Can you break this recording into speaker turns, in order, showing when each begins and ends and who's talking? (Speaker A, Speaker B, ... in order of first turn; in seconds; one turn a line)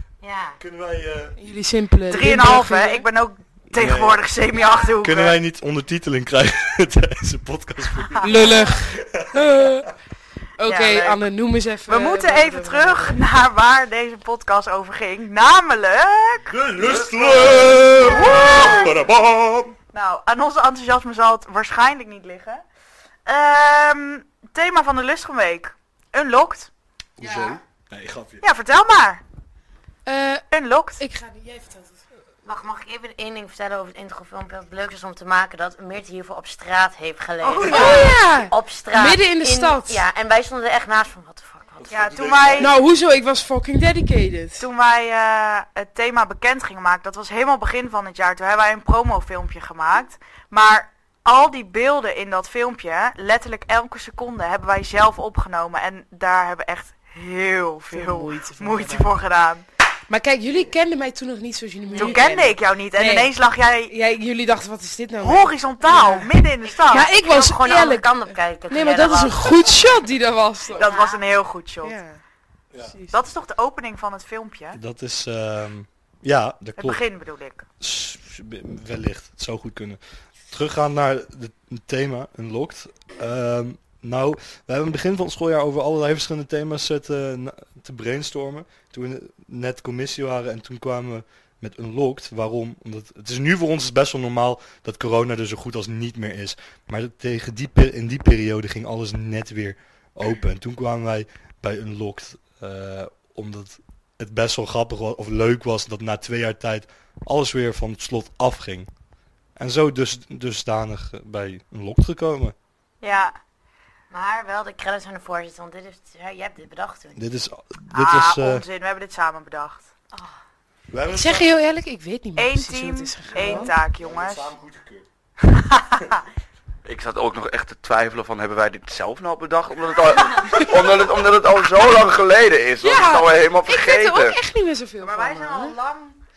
Speaker A: 0.2-0.6
Speaker B: 0.6-1.5
Speaker C: 1.4-3.1
Speaker D: 2.1-5.3
Speaker B: 3.7-4.2
Speaker B: 5.0-9.7
Speaker C: 8.2-9.9
Speaker C: 10.6-13.2
Speaker D: 10.6-11.2
Speaker D: 11.8-16.5
Speaker B: 16.4-19.7
Speaker E: 16.8-18.7
Speaker D: 17.9-18.9
Speaker D: 19.9-22.6
Speaker D: 23.2-26.7
Speaker B: 27.2-28.4
Speaker C: 27.2-27.5
Speaker D: 28.4-29.2
Speaker C: 30.1-30.4
Speaker D: 30.5-31.0
Speaker C: 31.0-32.0
Speaker A: 32.4-41.9
Speaker D: 37.4-38.2
Speaker C: 37.6-40.0
Speaker B: 41.8-42.7
Speaker D: 41.9-42.7
Speaker C: 42.6-44.6
Speaker D: 44.6-59.6
Speaker C: 57.9-59.1
Speaker C: 60.1-63.3
Speaker A: 61.8-62.2
Speaker D: 62.0-63.9
Speaker C: 63.9-66.3
Speaker D: 65.2-67.1
Speaker C: 66.9-70.9
Speaker A: 66.9-70.0
Speaker A: 70.7-71.2
Speaker D: 70.7-72.0
Speaker C: 71.8-72.2
Speaker D: 73.1-74.8
Speaker B: 74.7-77.0
Speaker D: 76.8-77.6
Speaker B: 77.8-80.0
Speaker B: 80.5-108.9
Speaker B: 109.6-112.5
Speaker D: 113.0-113.3
Speaker A: 114.1-117.2
Speaker B: 117.1-118.6
Speaker D: 117.9-119.9
Speaker B: 120.9-121.5
Speaker C: 121.1-123.7
Speaker D: 122.3-124.5
Speaker B: 123.2-125.0
Speaker D: 125.5-126.2
Speaker E: 126.8-134.4
Speaker C: 132.8-135.8
Speaker D: 135.0-136.2